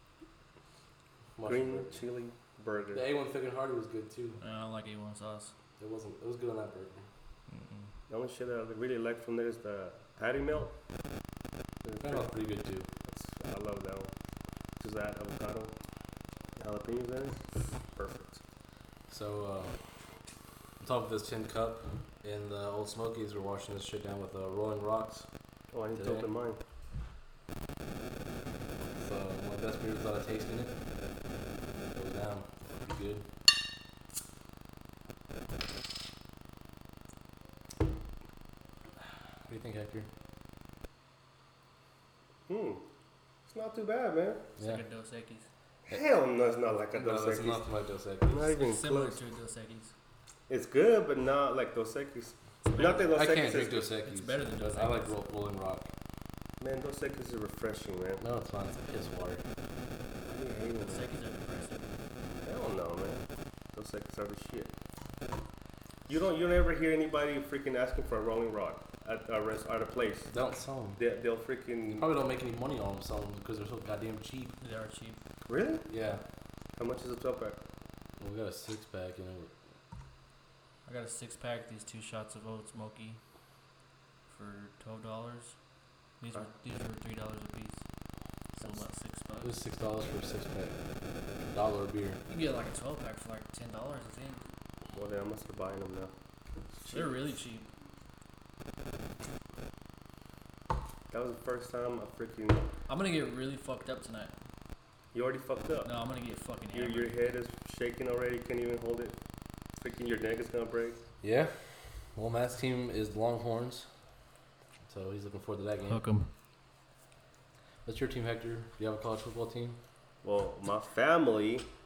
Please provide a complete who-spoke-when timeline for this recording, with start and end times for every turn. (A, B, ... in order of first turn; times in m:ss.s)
0:01.4-0:02.0 A
0:01.4-0:03.0 B
0:02.9-0:04.4 A
0:04.4-0:05.5 C
0:05.8-0:07.1 A
0:07.5-0:07.9 C
0:08.1-0:10.7 B
0:11.8-0:12.3 B
0:12.0-0:12.9 A
0:13.1-0:14.1 B
0:14.8-0:15.7 B
0:16.6-0:18.4 B
0:19.1-0:19.8 A
0:20.8-0:25.3 A
0:25.7-0:26.6 B
0:26.0-0:26.3 A
0:29.0-0:30.8 A
0:31.9-0:33.3 A
0:39.5-0:40.1 A
0:42.5-0:42.8 B
0:43.5-0:44.5 B
0:44.6-0:45.5 C
0:45.9-0:47.7 B
0:47.0-0:48.5 A
0:48.3-0:49.2 B
0:48.5-0:49.9 C
0:50.5-0:53.9 B
0:52.7-0:53.1 C
0:53.0-0:55.9 A
0:54.0-0:55.2 C
0:56.6-0:58.2 B
0:58.2-0:59.4 A
1:00.3-1:01.1 B
1:00.9-1:01.9 C
1:02.4-1:04.7 B
1:06.1-1:10.3 B
1:10.3-1:11.0 A
1:11.0-1:12.2 B
1:11.9-1:14.5 A
1:14.6-1:15.2 C
1:15.5-1:15.9 B
1:15.9-1:16.2 A
1:16.8-1:17.6 B
1:18.2-1:19.5 A
1:20.9-1:23.2 C
1:24.3-1:25.6 C
1:26.2-1:27.8 C
1:28.6-1:29.5 C
1:29.4-1:30.8 A
1:31.4-1:32.2 A
1:32.3-1:34.4 C
1:34.9-1:36.1 B
1:36.8-1:37.2 B
1:36.9-1:37.7 C
1:41.1-1:42.6 B
1:42.9-1:44.4 C
1:45.1-1:45.9 B
1:45.8-1:47.3 C
1:46.7-1:49.2 B
1:49.8-1:51.0 B
1:51.2-1:53.9 A
1:54.9-1:56.0 A
1:55.9-1:56.3 C
1:57.8-1:59.8 A
2:00.2-2:01.7 B